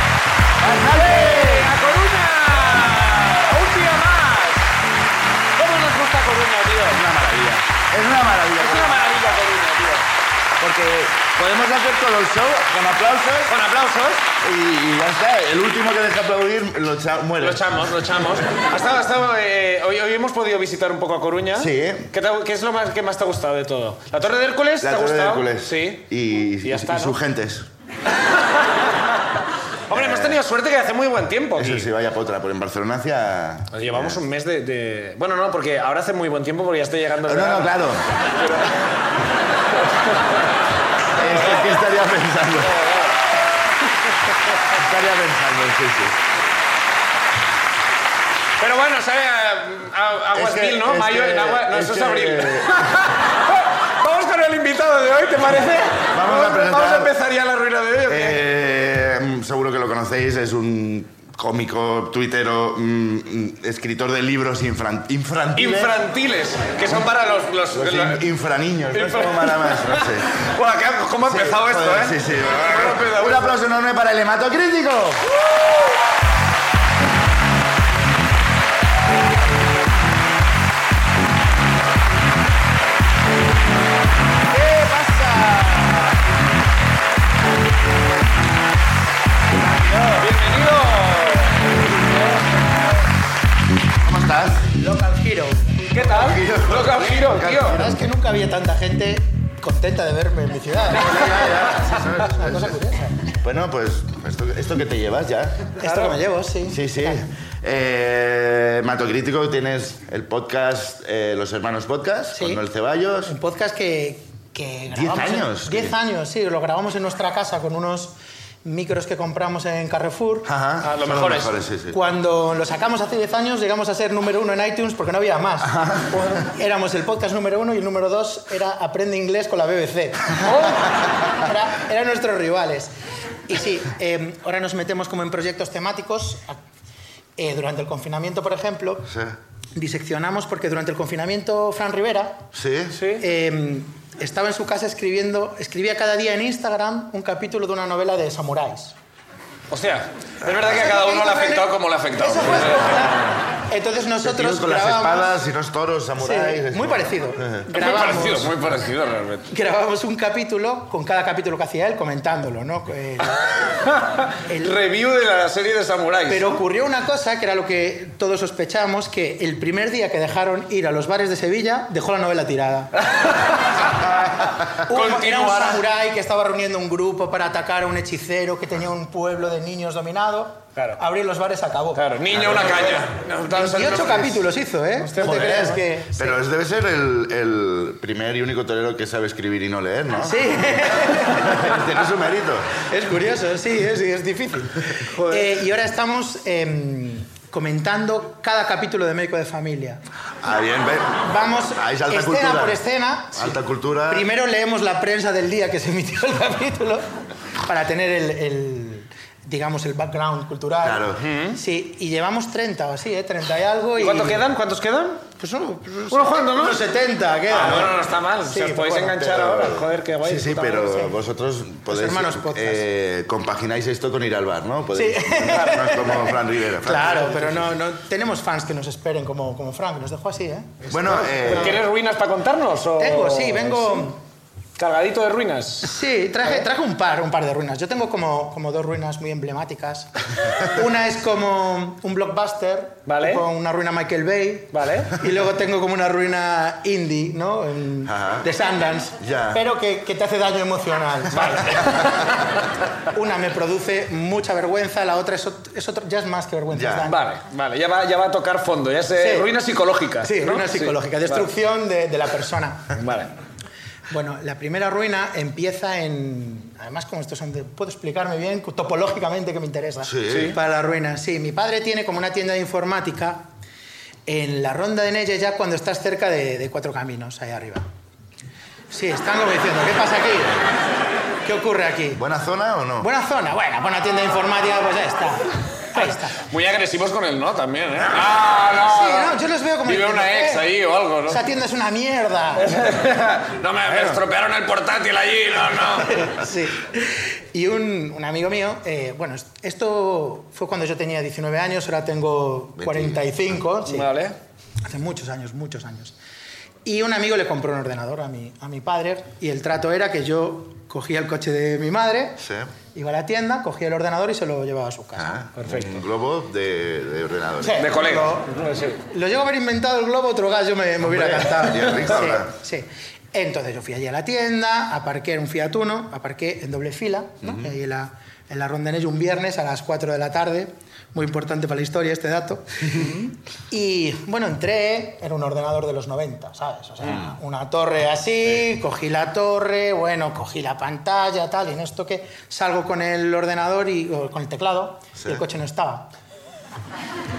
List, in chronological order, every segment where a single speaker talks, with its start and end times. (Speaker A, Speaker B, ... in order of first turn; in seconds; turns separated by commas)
Speaker A: 0.6-1.7, Speaker B: 0.6-4.8, Speaker B: 5.6-7.1, Speaker A: 6.9-9.0, Speaker B: 8.6-10.1, Speaker A: 10.6-13.5, Speaker B: 13.4-14.3, Speaker A: 14.4-17.8, Speaker B: 17.4-26.1, Speaker A: 21.5-22.1, Speaker A: 24.8-27.7, Speaker B: 26.6-27.2, Speaker B: 28.3-29.0, Speaker B: 29.9-31.9, Speaker A: 29.9-30.4, Speaker A: 31.6-34.2, Speaker B: 33.7-37.8, Speaker A: 37.2-38.0, Speaker B: 38.4-38.8, Speaker A: 41.2-42.8, Speaker B: 41.2-41.8, Speaker B: 42.7-43.1, Speaker A: 44.7-46.2, Speaker B: 48.6-58.4, Speaker A: 50.3-53.0, Speaker A: 56.1-57.1, Speaker A: 58.1-66.0, Speaker B: 65.6-68.2, Speaker A: 67.7-70.4, Speaker B: 68.9-73.6, Speaker A: 71.2-75.3, Speaker B: 75.3-75.8, Speaker B: 84.8-85.2, Speaker C: 89.8-90.2, Speaker B: 90.2-92.8, Speaker A: 94.0-94.7, Speaker C: 94.8-95.8, Speaker B: 95.9-97.8, Speaker A: 96.0-98.0, Speaker C: 97.7-103.2, Speaker A: 100.9-102.8, Speaker A: 103.4-105.7, Speaker C: 105.8-107.2, Speaker B: 105.8-106.2, Speaker A: 106.6-113.3, Speaker C: 112.3-112.6, Speaker C: 113.3-120.5, Speaker A: 114.9-116.0, Speaker A: 120.5-122.0, Speaker B: 120.8-121.5, Speaker C: 121.9-132.9, Speaker A: 125.6-126.4, Speaker B: 130.4-130.8, Speaker C: 133.5-136.6, Speaker C: 137.4-139.1, Speaker A: 139.1-139.4, Speaker C: 139.8-142.5, Speaker A: 142.5-143.0, Speaker B: 142.9-143.2, Speaker C: 143.2-148.9, Speaker B: 149.7-153.4, Speaker C: 150.7-155.3, Speaker A: 154.2-157.6, Speaker C: 156.2-158.5, Speaker B: 157.7-159.5, Speaker C: 159.5-163.5, Speaker B: 163.8-166.6, Speaker C: 164.5-164.8, Speaker C: 166.3-172.9, Speaker B: 173.1-175.8, Speaker C: 174.7-182.1, Speaker B: 181.9-184.5, Speaker A: 182.3-182.9, Speaker C: 183.5-186.4, Speaker B: 185.0-185.7, Speaker A: 185.2-192.7, Speaker C: 190.2-191.7, Speaker C: 192.9-200.0, Speaker B: 195.2-195.5, Speaker A: 200.4-202.8, Speaker C: 201.2-203.6, Speaker A: 203.3-204.3, Speaker C: 204.1-207.1, Speaker C: 207.6-214.5, Speaker A: 210.8-211.3, Speaker B: 211.2-211.6, Speaker B: 214.0-215.2, Speaker C: 215.4-219.2, Speaker B: 216.1-216.8, Speaker B: 217.5-221.1, Speaker A: 219.1-227.7, Speaker C: 221.9-222.8, Speaker C: 224.9-230.8, Speaker B: 225.5-225.9, Speaker A: 230.9-231.8, Speaker B: 231.3-234.1, Speaker C: 233.0-234.2, Speaker B: 234.8-235.9, Speaker C: 235.8-252.3, Speaker B: 243.1-243.4, Speaker B: 244.7-245.2, Speaker A: 248.1-248.5, Speaker A: 249.2-249.6, Speaker B: 251.3-252.1, Speaker C: 253.1-257.2, Speaker A: 256.7-257.1, Speaker B: 257.0-261.5, Speaker C: 259.1-259.5, Speaker C: 260.2-263.0, Speaker B: 263.0-263.3, Speaker C: 264.1-273.5, Speaker A: 270.0-270.6, Speaker B: 270.3-270.6, Speaker C: 274.3-277.9, Speaker C: 278.9-280.6, Speaker C: 281.4-282.2, Speaker A: 282.2-283.1, Speaker C: 283.0-286.4, Speaker B: 286.0-291.4, Speaker C: 288.8-290.7, Speaker C: 291.3-292.8, Speaker B: 292.6-296.3, Speaker C: 296.0-304.1, Speaker A: 302.8-303.2, Speaker B: 303.9-304.4, Speaker C: 304.9-306.1, Speaker C: 306.9-312.4, Speaker A: 312.4-312.7, Speaker C: 312.9-315.5, Speaker A: 315.2-317.9, Speaker B: 315.6-316.0, Speaker C: 317.6-318.6, Speaker B: 317.8-319.0, Speaker C: 319.1-346.1, Speaker A: 321.0-322.5, Speaker A: 327.4-327.7, Speaker A: 337.1-337.3